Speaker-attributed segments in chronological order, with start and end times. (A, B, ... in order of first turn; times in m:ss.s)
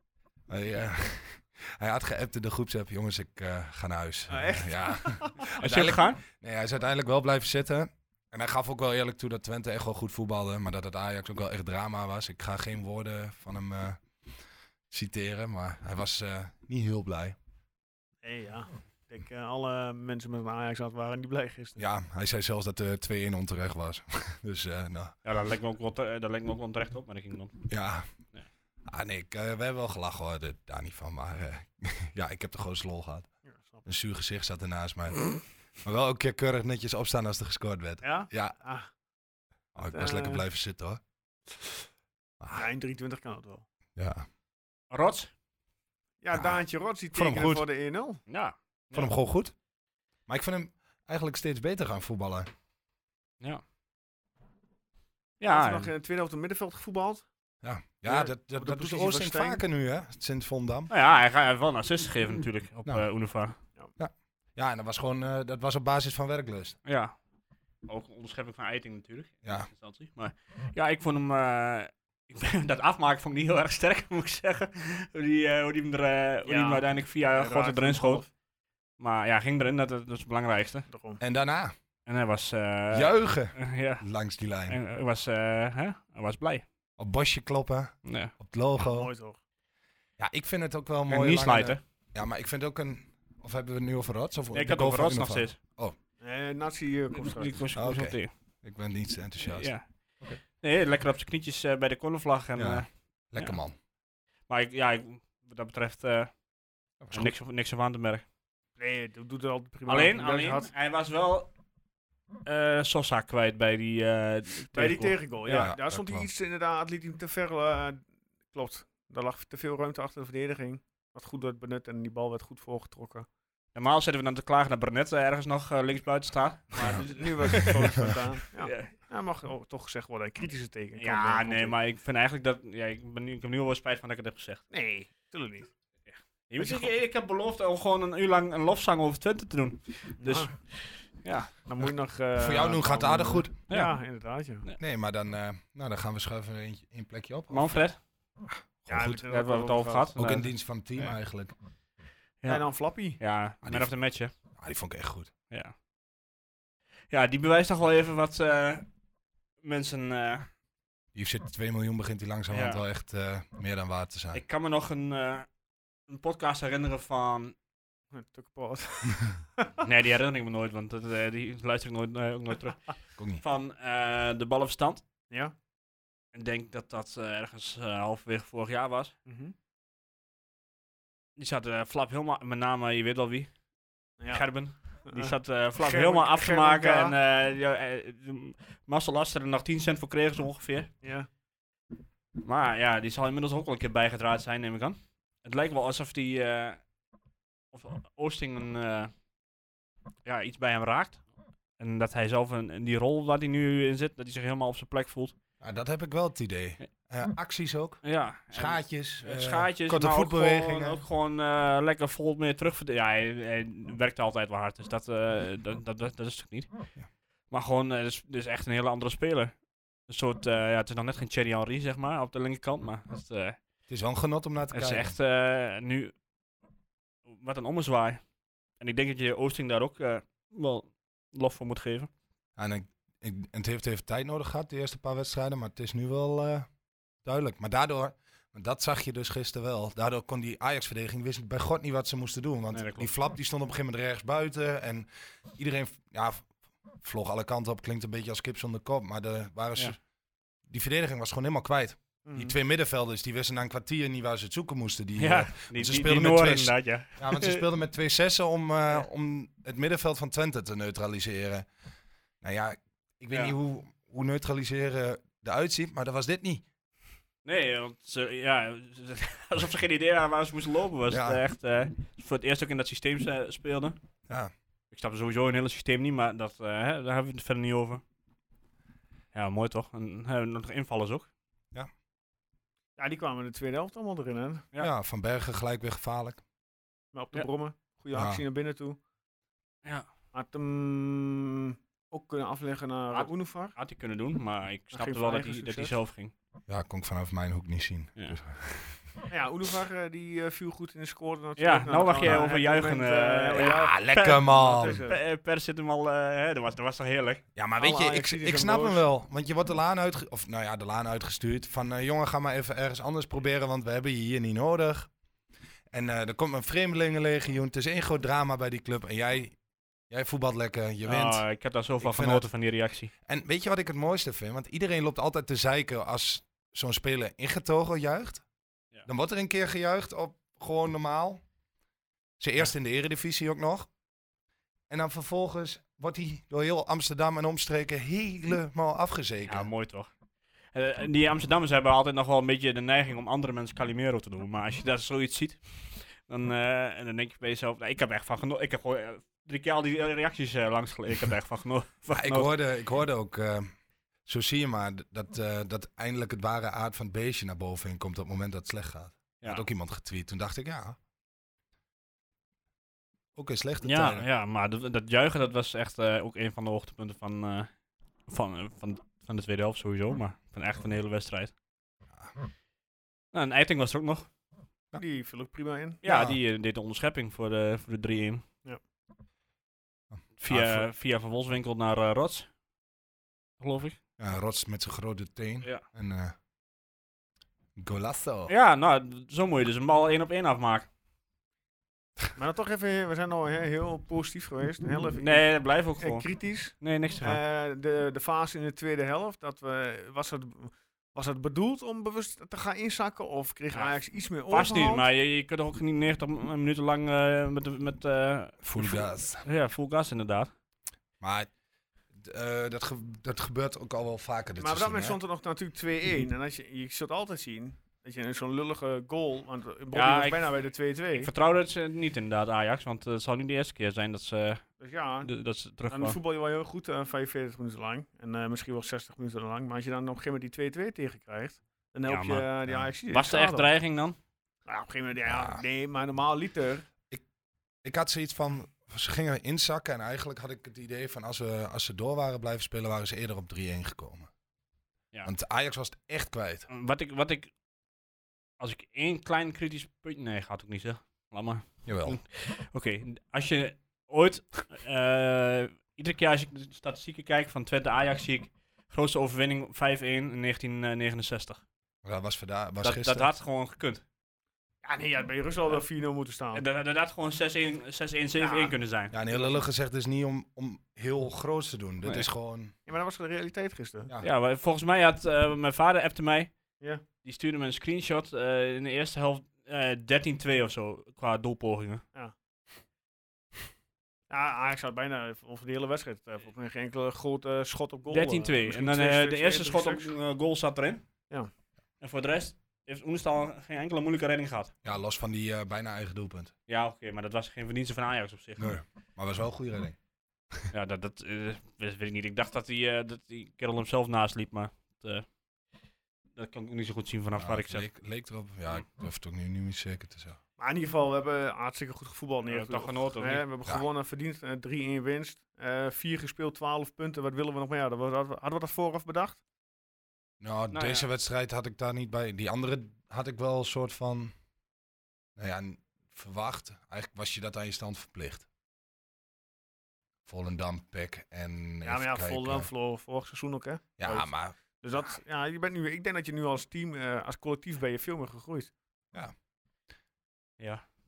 0:00.5-0:14.0 A
0:04.3-0:05.5 B
0:05.6-0:06.2 C
0:14.9-0:17.4 A
0:18.2-0:21.8 B
0:21.8-0:25.1 A
0:25.2-0:27.6 C
0:27.7-0:28.1 A
0:28.8-0:33.3 A
0:33.4-0:33.8 B
0:33.8-0:38.6 A
0:38.0-0:38.9 B
0:39.7-0:41.0 A
0:39.9-0:40.4 B
0:42.4-0:42.6 A
0:42.5-0:43.6 B
0:44.0-0:44.3 A
0:44.9-0:45.3 C
0:46.2-0:48.2 B
0:46.3-0:46.6 A
0:47.1-0:47.6 A
0:48.3-0:49.1 C
0:48.9-0:49.5 A
0:50.3-0:52.5 A
0:55.4-0:55.9 C
0:55.4-0:57.3 B
0:57.6-1:00.9 A
0:58.0-0:59.6 B
1:00.9-1:03.6 C
1:04.0-1:06.8 A
1:06.8-1:07.1 C
1:07.8-1:18.2 C
1:16.4-1:18.3 B
1:19.0-1:20.9 C
1:20.9-1:21.2 B
1:21.2-1:21.7 A
1:22.0-1:24.0 C
1:22.9-1:24.8 A
1:24.7-1:26.6 C
1:27.0-1:29.1 A
1:28.0-1:28.3 C
1:28.8-1:29.4 B
1:30.2-1:35.9 A
1:31.1-1:31.8 C
1:34.5-1:35.6 C
1:36.2-1:37.6 B
1:37.1-1:38.3 C
1:37.7-1:39.7 A
1:39.4-1:39.8 C
1:40.6-1:43.6 C
1:42.6-1:43.8 A
1:44.5-1:46.3 C
1:47.0-1:47.3 A
1:47.1-1:48.2 C
1:48.8-1:50.7 B
1:49.9-1:51.5 C
1:52.4-1:55.7 C
1:54.7-2:03.3 B
1:55.5-1:56.3 A
2:03.7-2:08.9 C
2:06.9-2:11.7 B
2:11.0-2:14.6 C
2:14.7-2:15.7 B
2:16.1-2:20.6 C
2:16.6-2:16.9 B
2:20.2-2:20.5 B
2:21.2-2:21.5 C
2:21.6-2:24.6 B
2:22.3-2:23.5 A
2:24.8-2:27.8 A
2:27.5-2:28.0 C
2:28.8-2:29.2 A
2:28.9-2:30.1 B
2:29.2-2:30.5 C
2:30.2-2:31.5 A
2:32.4-2:33.2 B
2:33.2-2:34.3 C
2:33.6-2:33.9 A
2:34.6-2:35.3 A
2:37.1-2:38.9 C
2:39.6-2:40.5 C
2:41.1-2:44.4 A
2:42.5-2:42.8 C
2:44.3-2:45.5 C
2:46.1-2:47.5 C
2:48.1-2:49.7 B
2:49.8-2:55.0 C
2:53.2-2:53.4 A
2:56.3-2:59.1 C
2:59.2-2:59.5 B
3:01.4-3:03.5 C
3:04.2-3:04.4 B
3:04.3-3:10.9 C
3:05.0-3:07.1 B
3:11.0-3:11.3 B
3:12.4-3:16.8 C
3:17.7-3:19.1 C
3:20.2-3:21.2 C
3:21.8-3:25.3 C
3:25.6-3:28.0 A
3:28.0-3:36.7 C
3:28.5-3:31.0 A
3:37.5-3:39.5 C
3:40.1-3:43.6 C
3:43.9-3:45.1 A
3:44.7-3:46.1 C
3:47.3-3:48.2 C
3:48.8-3:52.1 C
3:52.6-3:56.7 A
3:57.2-4:06.5 A
4:02.7-4:03.1 C
4:07.0-4:10.0 A
4:10.7-4:21.6 A
4:12.2-4:12.6 B
4:15.2-4:17.6 C
4:22.4-4:26.6 A
4:27.4-4:34.0 C
4:31.1-4:31.4 A
4:34.9-4:38.0 C
4:39.3-4:41.3 C
4:43.0-4:44.6 B
4:44.8-4:46.4 A
4:47.1-4:49.0 B
4:48.1-4:48.4 A
4:50.3-4:53.7 B
4:53.1-4:56.3 C
4:54.9-4:55.9 B
4:56.7-4:59.1 A
4:59.3-5:05.2 B
5:01.6-5:07.4 C
5:03.6-5:05.0 A
5:07.5-5:15.1 A
5:07.8-5:09.0 B
5:15.9-5:19.6 A
5:20.1-5:21.4 A
5:21.0-5:23.1 C
5:22.0-5:22.4 A
5:23.3-5:28.4 A
5:29.0-5:31.4 A
5:32.4-5:33.9 A
5:34.9-5:39.7 A
5:39.5-5:40.1 C
5:40.7-5:52.5 C
5:52.1-5:53.7 A
5:54.2-6:01.0 A
6:03.3-6:04.2 A
6:03.8-6:07.7 C
6:08.3-6:11.5 C
6:13.3-6:14.3 C
6:14.9-6:16.0 B
6:16.0-6:18.4 C
6:16.0-6:16.4 A
6:20.1-6:20.9 A
6:20.4-6:22.5 C
6:23.6-6:24.0 C
6:24.2-6:26.3 A
6:27.8-6:28.5 A
6:28.5-6:30.9 C
6:32.4-6:35.5 B
6:35.2-6:36.3 C
6:36.0-6:45.1 B
6:36.8-6:37.4 C
6:44.5-6:50.5 C
6:48.6-6:49.4 A
6:51.2-6:51.5 A
6:52.1-6:55.2 A
6:54.6-7:01.3 B
6:59.9-7:00.5 C
7:01.2-7:04.7 C
7:04.8-7:05.3 B
7:05.2-7:06.2 C
7:05.9-7:13.7 B
7:12.1-7:12.4 C
7:13.1-7:14.2 C
7:14.7-7:16.9 B
7:15.3-7:15.6 A
7:17.8-7:24.3 A
7:25.2-7:26.7 A
7:26.7-7:27.5 C
7:28.6-7:41.6 C
7:31.8-7:32.2 A
7:42.0-7:43.3 A
7:42.8-7:44.0 C
7:44.8-7:46.6 B
7:46.5-7:49.2 C
7:48.4-7:48.8 B
7:49.1-7:52.7 A
7:52.8-7:54.1 B
7:54.2-7:56.5 C
7:57.2-8:02.0 C
8:04.3-8:10.1 B
8:08.1-8:11.0 C
8:12.0-8:14.7 C
8:14.8-8:16.5 A
8:16.7-8:18.7 C
8:18.6-8:20.0 A
8:20.7-8:25.2 C
8:26.4-8:27.9 C
8:27.4-8:30.4 A
8:30.6-8:39.4 B
8:32.4-8:33.4 C
8:40.4-8:44.3 A
8:40.7-8:41.0 C
8:45.4-8:48.5 A
8:50.2-8:52.7 A
8:51.8-8:58.7 B
8:54.0-8:54.6 A
9:00.6-9:00.8 C